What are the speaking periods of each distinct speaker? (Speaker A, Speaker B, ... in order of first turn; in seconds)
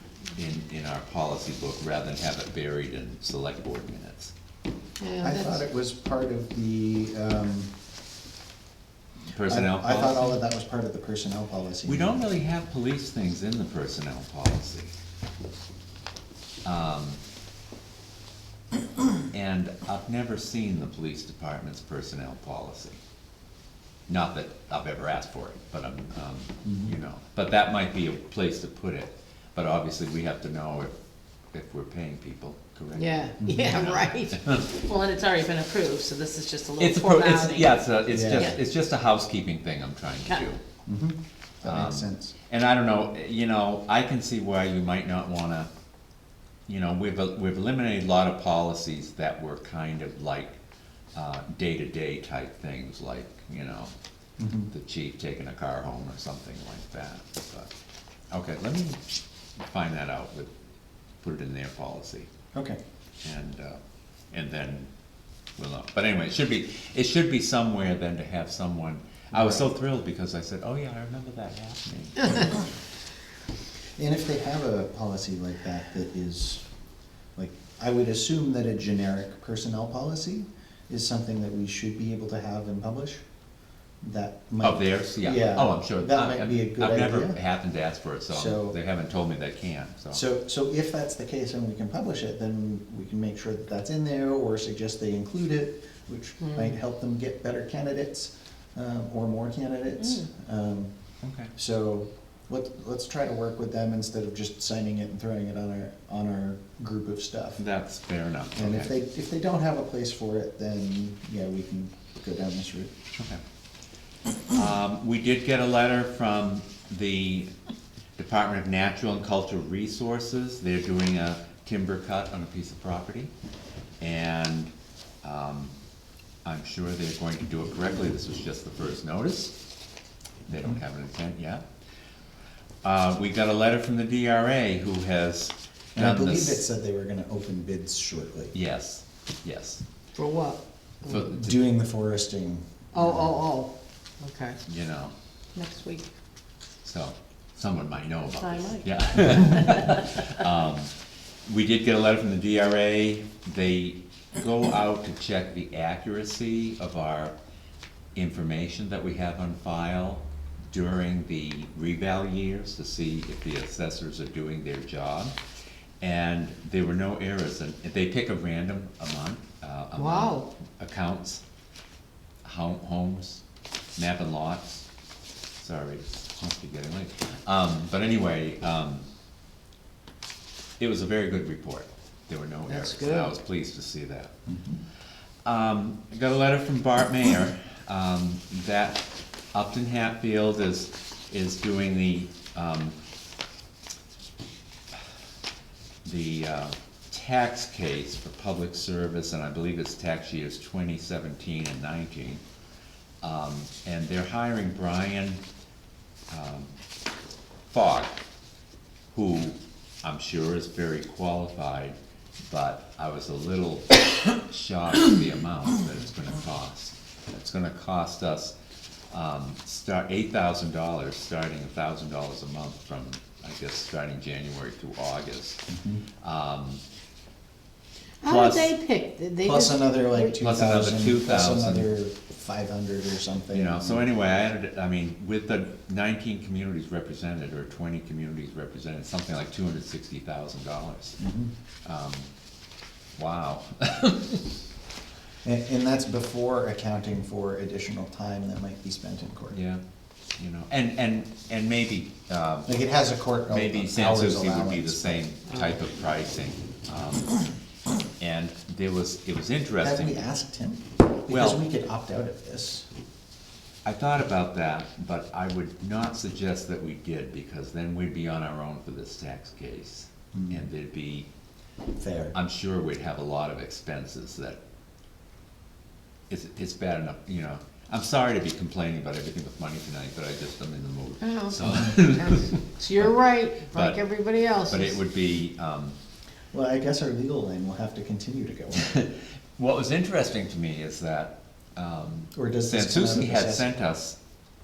Speaker A: 0.3-4.3, 9.3-10.4, 11.9-14.9, 16.6-17.2, 19.3-23.0, 24.1-30.9, 31.5-34.8, 36.8-40.6, 41.6-45.7, 46.7-50.6, 51.1-53.9, 54.7-57.7, 58.3-59.0, 59.6-60.5, 61.2-62.3, 63.2-63.8, 64.3-64.9, 65.6-72.6, 84.6-90.2, 101.2-101.5, 107.6-108.9, 113.2-113.4, 114.5-117.5, 118.2-123.3, 124.0-125.7, 126.5-129.6, 130.5-131.6, 132.8-136.6, 138.5-139.8, 141.1-141.4, 144.7-145.1, 146.8-150.9, 151.5-157.3, 158.2-165.3, 166.0-171.4, 172.4-173.4, 174.0-174.9, 175.6-179.1, 180.8-184.3, 185.4-193.0, 196.0-202.4, 203.2-205.4, 206.3-206.8, 207.7-208.2, 209.1-212.0, 212.5-218.6, 219.1-225.6, 226.2-226.8, 228.2-228.7, 230.4-231.9, 233.5-241.2, 241.8-242.3, 243.2-244.6, 249.5-249.8, 250.4-252.7, 253.5-257.4, 258.2-260.2, 261.3-261.6, 263.9-271.3, 272.3-274.6, 276.3-284.0, 284.6-286.0, 288.7-294.2
Speaker B: 5.0-5.6, 33.0-37.8, 96.4-96.7, 100.0-100.3, 140.2-141.2, 142.9-144.6, 145.6-146.1, 148.4-149.9, 170.0-170.5, 182.7-183.3, 228.2-230.4, 281.2-285.0
Speaker C: 5.2-7.7, 9.5-12.2, 26.6-26.9, 33.4-33.8, 38.1-38.6, 40.9-42.3, 54.4-54.7, 69.3-69.6, 74.0-76.6, 77.4-83.2, 84.0-87.4, 88.3-88.8, 90.1-100.9, 101.5-107.6, 108.5-112.9, 135.9-138.5, 141.1-143.3, 184.5-184.8, 225.7-226.0, 229.4-234.1, 241.2-241.5, 245.4-249.6, 252.7-255.2, 259.8-262.9, 270.3-270.7, 272.0-272.4, 286.5-288.9, 292.3-293.7